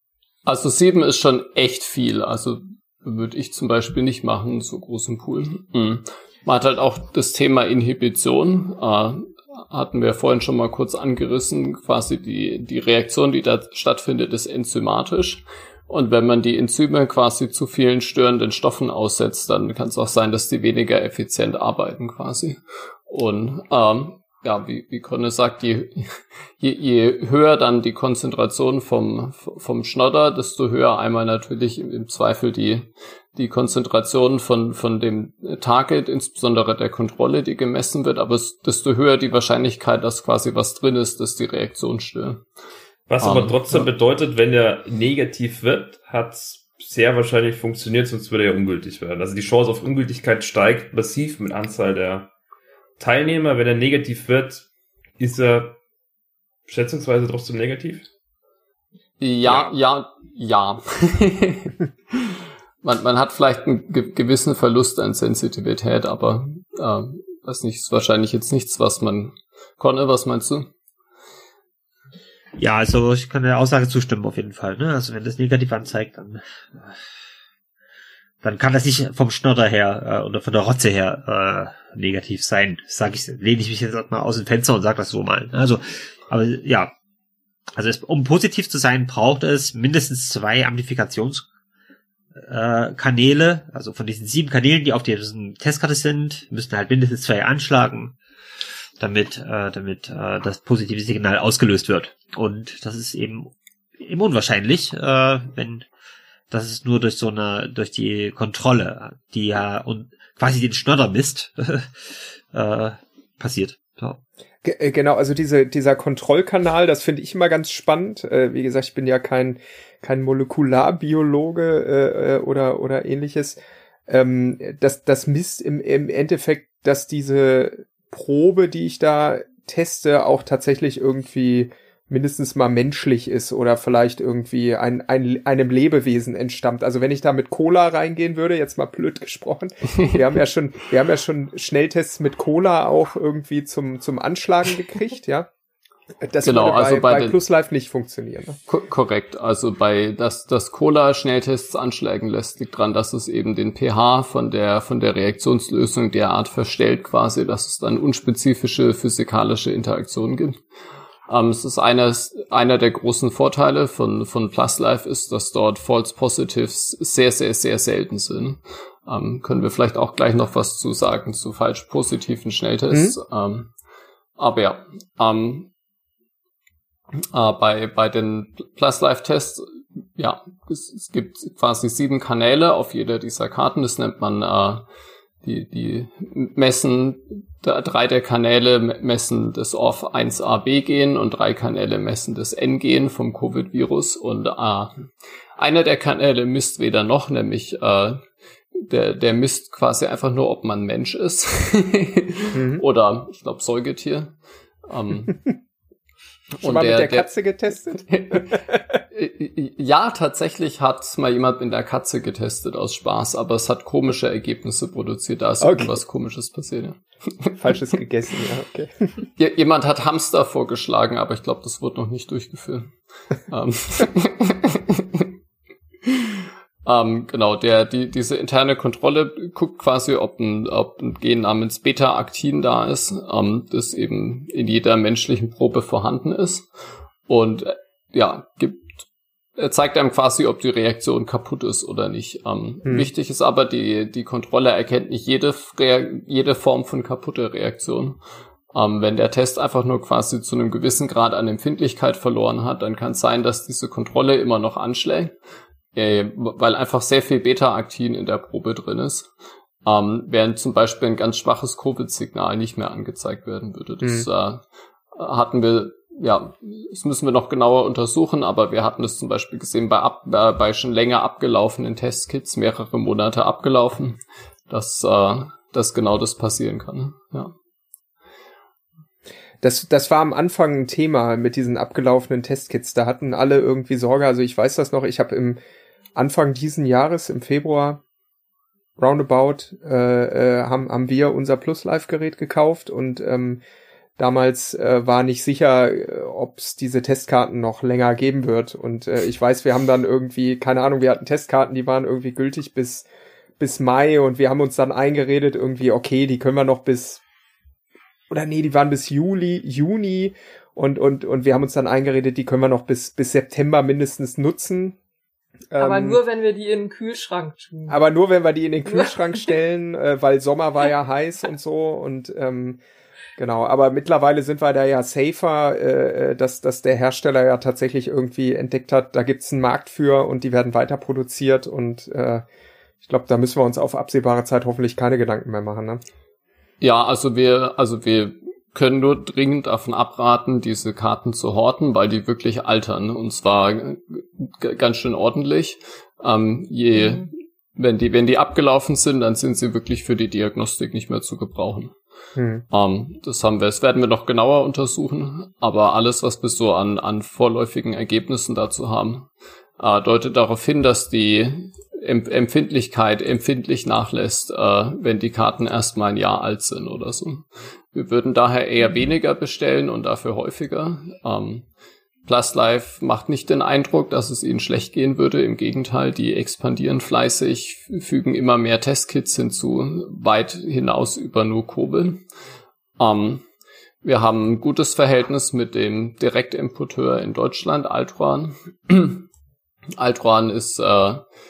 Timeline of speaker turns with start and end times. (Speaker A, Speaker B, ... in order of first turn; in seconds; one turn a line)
Speaker A: 0.5-42.4
Speaker B: 43.1-52.3
Speaker A: 43.2-43.9
Speaker B: 53.0-54.6
Speaker B: 55.2-55.8
Speaker B: 56.7-58.1
Speaker A: 59.2-61.7
Speaker B: 59.5-59.7
Speaker A: 62.8-70.7
Speaker C: 72.6-77.0
Speaker C: 78.4-86.9
Speaker C: 87.8-91.5
Speaker C: 92.3-98.2
Speaker C: 99.0-105.9
Speaker C: 106.5-114.2
Speaker D: 114.6-145.5
Speaker D: 146.2-148.6
Speaker A: 146.4-147.4
Speaker A: 148.7-160.6
Speaker A: 161.3-173.7
Speaker A: 174.4-175.7
Speaker A: 177.3-184.8
Speaker A: 185.4-198.2
Speaker A: 198.7-204.3
Speaker D: 202.5-202.8
Speaker A: 204.9-205.4
Speaker A: 206.6-207.3
Speaker D: 206.6-208.6
Speaker A: 208.1-217.8
Speaker D: 215.6-216.0
Speaker D: 217.6-219.2
Speaker A: 219.4-222.9
Speaker A: 223.5-225.3
Speaker A: 226.8-236.7
Speaker A: 237.3-239.1
Speaker A: 239.6-248.2
Speaker A: 248.7-255.3
Speaker A: 255.9-259.3
Speaker A: 259.8-274.2
Speaker D: 264.0-264.3
Speaker A: 274.7-277.5
Speaker D: 279.6-285.6
Speaker D: 286.1-288.0
Speaker D: 289.0-293.6
Speaker D: 294.2-303.1
Speaker D: 303.6-307.2
Speaker D: 308.3-315.0
Speaker D: 315.7-316.2
Speaker E: 315.8-318.0
Speaker D: 317.9-322.8
Speaker D: 323.4-332.4
Speaker D: 333.0-336.0
Speaker A: 336.8-351.9
Speaker D: 352.4-352.6
Speaker A: 352.7-371.7
Speaker A: 372.2-382.2
Speaker A: 383.0-383.4
Speaker A: 384.0-389.3
Speaker A: 390.0-391.2